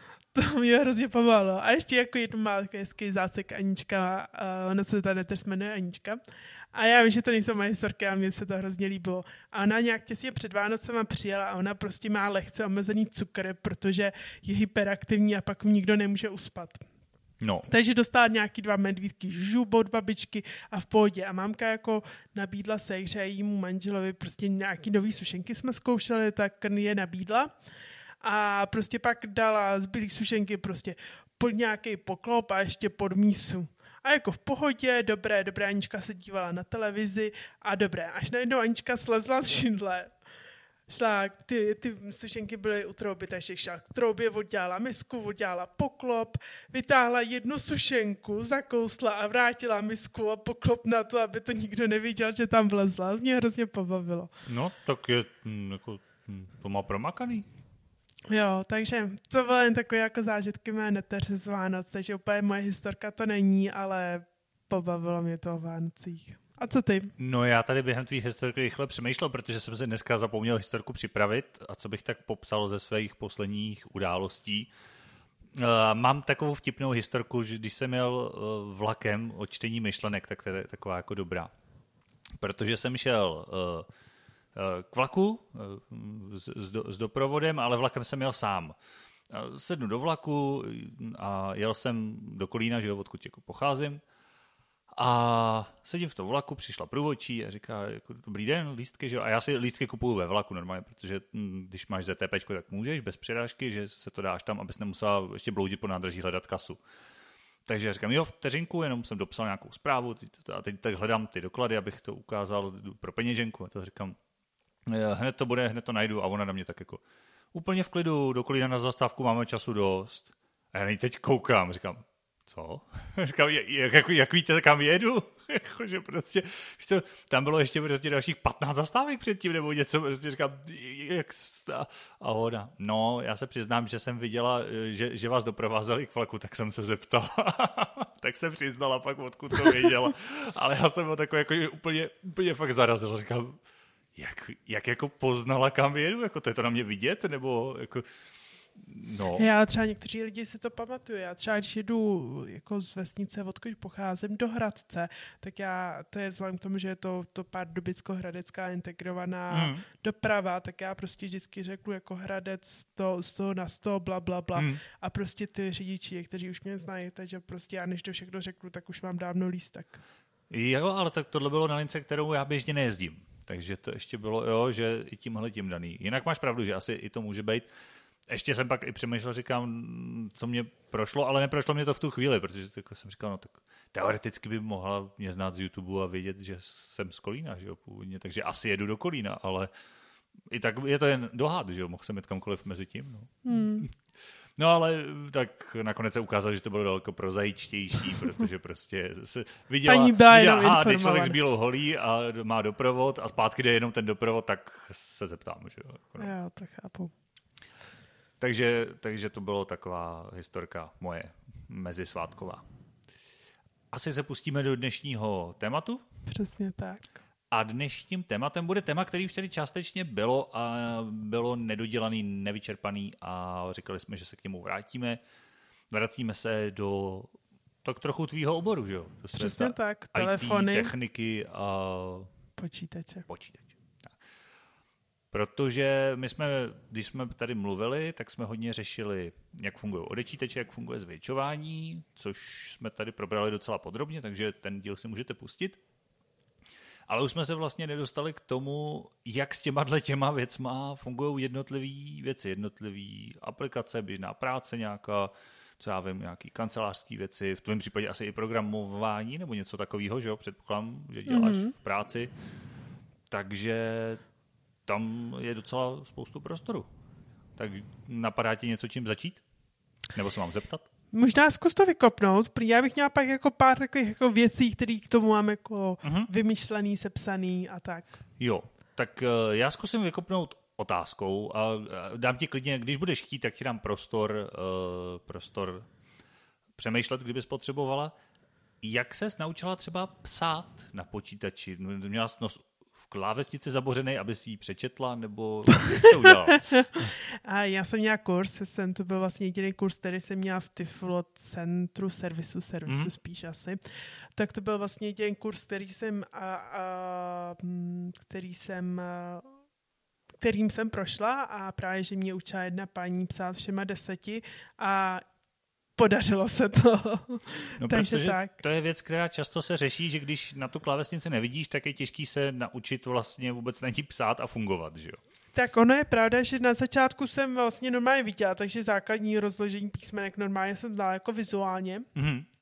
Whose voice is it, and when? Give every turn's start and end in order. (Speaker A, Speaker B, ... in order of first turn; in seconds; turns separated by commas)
Speaker A: 0.3-6.2, Speaker A: 6.7-16.9, Speaker B: 17.4-17.7, Speaker A: 17.7-27.5, Speaker A: 28.2-40.1, Speaker A: 40.9-54.3, Speaker B: 54.5-57.5, Speaker A: 58.3-67.1, Speaker B: 67.2-74.7, Speaker B: 75.5-81.5, Speaker B: 82.4-83.9, Speaker B: 84.5-88.8, Speaker B: 89.3-94.0, Speaker B: 94.9-106.8, Speaker B: 107.7-114.2, Speaker B: 114.9-117.0, Speaker B: 117.5-143.6, Speaker B: 144.2-148.1, Speaker B: 148.8-149.5, Speaker A: 149.3-170.0, Speaker B: 159.5-159.8, Speaker B: 164.6-164.8, Speaker B: 170.5-177.7, Speaker B: 178.3-189.7, Speaker B: 190.5-206.3, Speaker A: 193.4-193.9, Speaker A: 199.8-201.4, Speaker A: 206.2-207.1, Speaker B: 208.4-212.6, Speaker B: 213.9-216.0, Speaker A: 216.3-217.1, Speaker B: 217.5-225.2, Speaker B: 225.9-227.3, Speaker B: 227.8-232.3, Speaker A: 229.3-230.9, Speaker A: 232.6-233.3, Speaker B: 233.3-234.1, Speaker B: 235.3-245.8, Speaker B: 247.1-262.3, Speaker A: 261.3-261.7, Speaker B: 263.3-264.2, Speaker B: 264.9-266.9, Speaker B: 267.6-269.4, Speaker B: 270.1-270.9, Speaker A: 271.1-278.2, Speaker B: 276.0-276.3, Speaker B: 278.4-285.9, Speaker B: 286.8-288.1, Speaker B: 288.8-297.1, Speaker A: 295.7-303.8, Speaker B: 302.9-303.1, Speaker A: 304.4-309.5, Speaker A: 310.4-315.2, Speaker A: 316.0-318.5, Speaker B: 317.8-325.2, Speaker A: 325.6-332.1, Speaker B: 332.1-332.5